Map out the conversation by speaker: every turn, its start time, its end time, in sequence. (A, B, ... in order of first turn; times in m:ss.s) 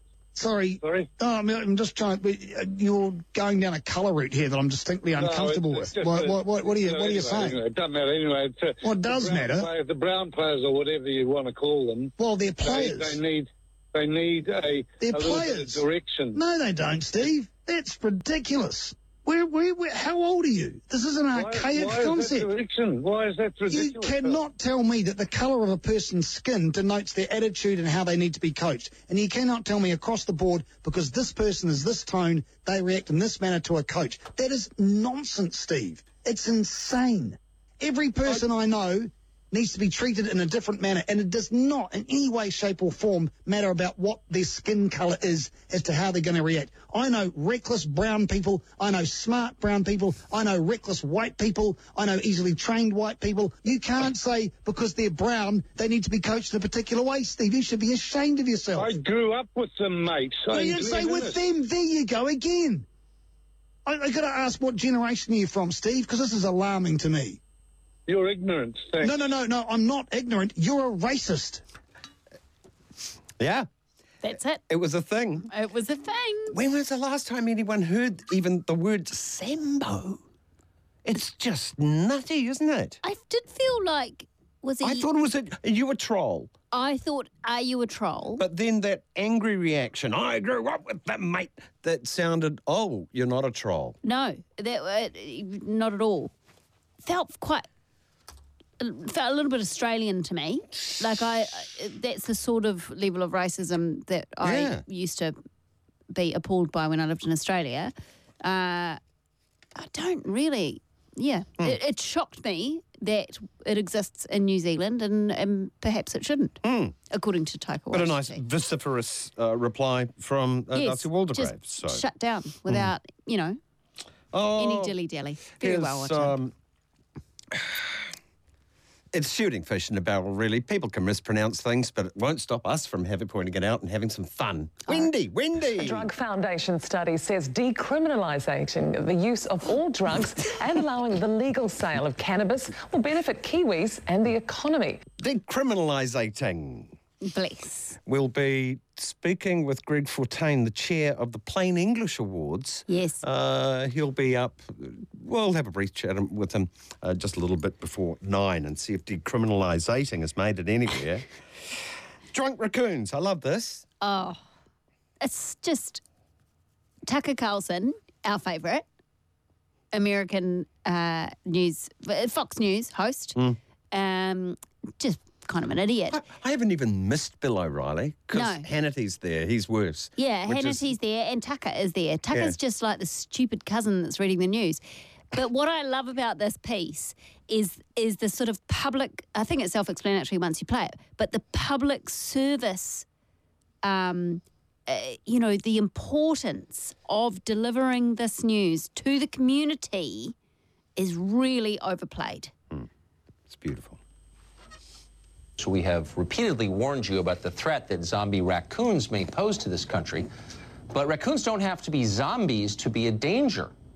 0:00.4-0:07.6 A
0:00.8-0:01.1 B
0:05.1-0:16.4 B
0:08.8-0:09.7 A
0:12.2-0:13.2 A
0:15.0-0:22.5 A
0:21.3-0:24.4 B
0:23.7-0:58.9 A
0:58.8-1:01.4 B
1:00.5-1:02.9 A
1:03.9-1:07.4 A
1:08.1-1:09.2 B
1:09.0-1:11.6 A
1:13.4-1:13.7 C
1:14.2-1:14.6 D
1:14.7-1:15.5 C
1:15.5-1:16.6 D
1:16.5-1:20.2 C
1:21.0-1:23.0 C
1:23.0-1:25.1 D
1:24.8-1:26.5 C
1:26.7-1:28.4 D
1:28.4-1:34.0 C
1:34.0-1:36.3 D
1:37.0-1:37.7 D
1:38.8-1:45.4 D
1:44.4-1:44.8 C
1:46.1-1:49.0 D
1:49.8-1:56.6 D
1:56.6-1:57.0 C
1:57.1-1:58.4 D
1:57.9-2:02.0 C
2:00.7-2:03.6 D
2:04.3-2:05.0 C
2:04.6-2:06.4 D
2:05.6-2:06.5 C
2:07.5-2:07.9 C
2:09.1-2:16.1 C
2:15.7-2:25.0 E
2:25.2-2:26.9 C
2:27.2-2:28.0 D
2:28.1-2:41.8 C
2:32.9-2:33.2 D
2:42.3-2:43.9 C
2:44.0-2:44.4 D
2:45.2-2:46.0 D
2:47.1-2:48.8 D
2:49.9-2:53.4 D
2:53.9-2:56.2 D
2:56.1-3:00.9 C
2:58.3-2:58.6 D
3:00.2-3:04.8 D
3:05.3-3:13.1 D
3:13.8-3:20.3 D
3:21.0-3:22.5 D
3:23.5-3:24.0 C
3:25.6-3:30.3 F
3:30.9-3:33.7 F